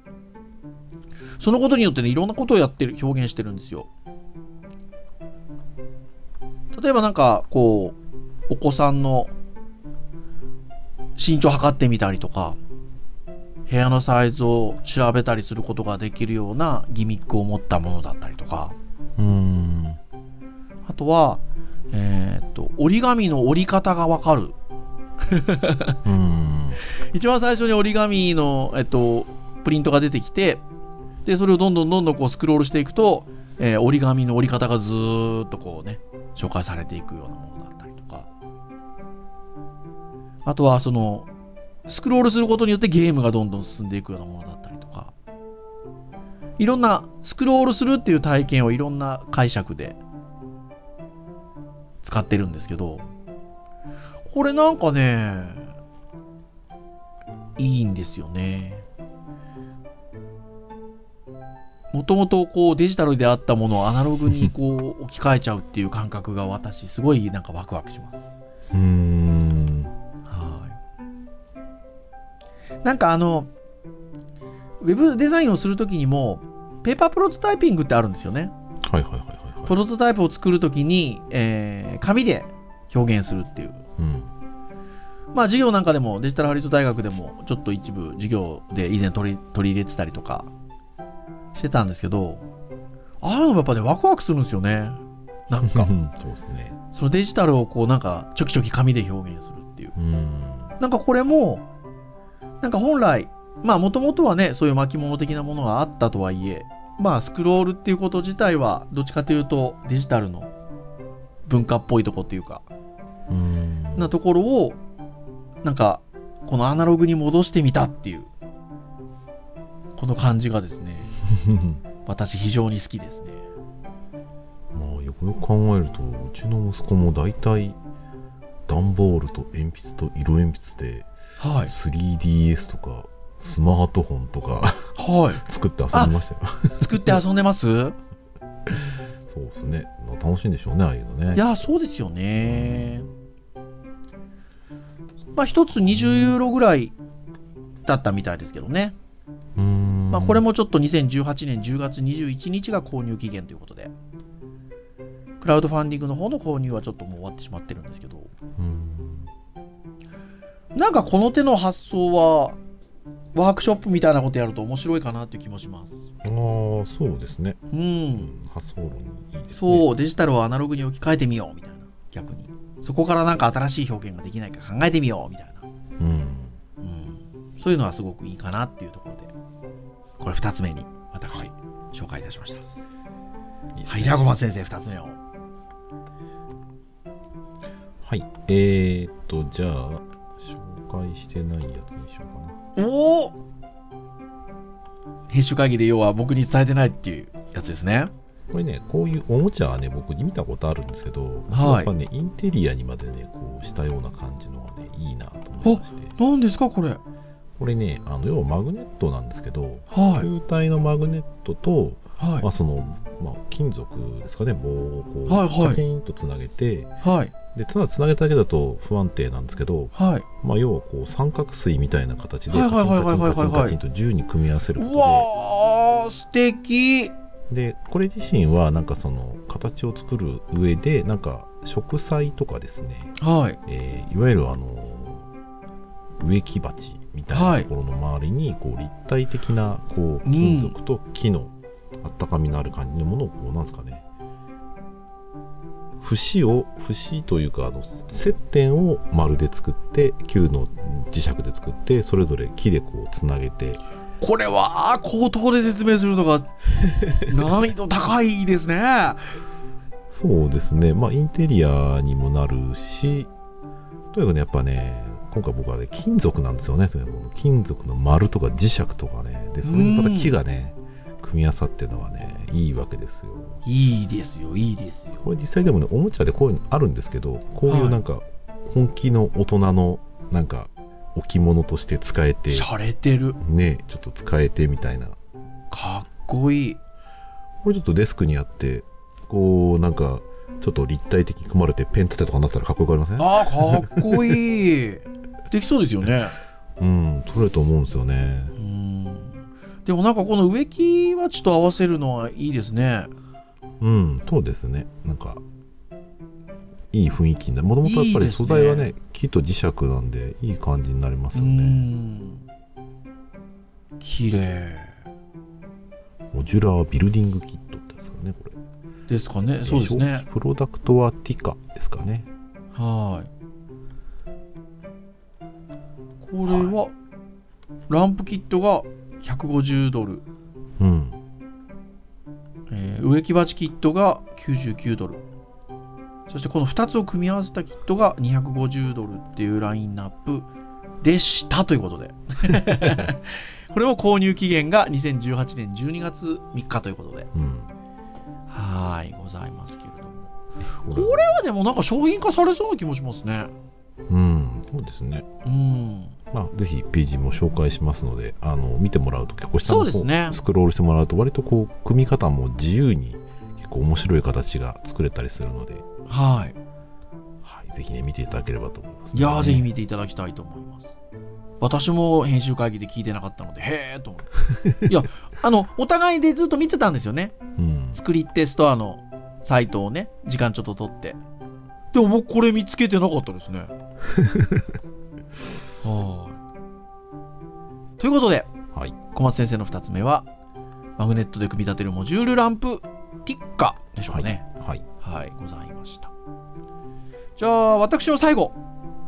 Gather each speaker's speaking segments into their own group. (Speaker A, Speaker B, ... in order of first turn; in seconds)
Speaker A: 1.4-3.9, 6.7-8.0, 8.5-9.3, 11.2-12.6, 13.7-18.8, 20.9-21.4, 21.9-24.6, 25.2-26.0, 27.1-30.6, 31.2-38.3, 40.5-41.3, 41.9-45.1, 46.6-50.0, 52.0-53.0, 54.3-55.7, 57.6-58.9, 61.9-68.3, 70.3-70.8, 72.8-73.5, 74.8-78.5, 79.7-83.8, 85.3-90.5, 91.5-92.5, 93.2-95.9, 96.9-99.9, 100.8-101.6, 102.6-110.5, 111.5-112.7, 114.0-114.8, 115.6-118.3, 120.0-121.1, 122.1-123.5, 131.4-131.7, 135.0-136.2, 136.8-138.0, 141.3-143.1, 145.4-146.9, 147.9-149.0, 150.1-153.9, 155.4-158.3, 160.8-162.6, 163.3-166.0, 167.7-168.3, 169.5-175.7, 176.8-179.3, 180.2-182.6, 183.9-185.2, 192.8-193.4, 195.3-198.1, 201.5-201.9, 205.6-207.0, 209.9-210.3, 212.2-212.5, 215.3-215.8, 217.0-217.3, 219.9-220.2, 222.5-223.8, 224.8-227.1, 233.2-233.6, 237.3-237.7, 240.2-240.8, 254.2-256.5, 257.1-259.2, 269.6-270.3, 273.6-275.2, 277.7-278.0, 282.5-283.4, 285.7-286.8, 293.2-296.4, 298.6-303.1, 307.8-308.9, 311.3-312.4, 314.0-314.9, 319.1-320.2, 322.8-323.3, 326.2-326.9, 327.9-330.2, 332.7-335.2, 336.3-340.5, 341.0-347.3, 348.5-350.3, 350.9-353.5, 355.4-356.1, 359.6-360.4, 366.1-366.6, 369.1-371.0, 371.6-377.4, 377.9-381.2, 381.9-383.7, 385.8-386.4, 388.0-388.5, 389.1-390.3, 391.0-394.4, 395.0-396.1, 397.4-398.6
Speaker B: 19.2-20.0, 26.1-26.8, 68.7-69.9, 78.8-79.7, 84.0-84.3, 95.6-96.8, 100.0-100.7, 113.3-114.1, 121.4-121.8, 124.7-127.8, 128.7-131.1, 131.7-137.2, 138.7-141.5, 142.4-143.0, 149.6-150.4, 158.6-159.3, 166.2-167.6, 168.2-169.9, 176.0-176.6, 183.8-184.3, 188.0-192.6, 198.5-206.1, 207.6-216.9, 217.5-225.3, 227.5-233.2, 233.7-235.3, 236.2-244.1, 246.0-253.8, 260.1-263.3, 264.1-273.6, 275.2-282.7, 283.4-285.2, 287.6-294.1, 296.8-298.6, 303.8-305.4, 306.9-311.9, 316.3-318.6, 319.6-322.3, 326.5-326.7, 330.8-331.2, 342.7-343.0, 347.3-347.7, 350.9-351.2, 354.1-355.3, 356.3-365.9, 367.4-369.7, 377.6-378.0, 384.1-384.6, 394.1-394.8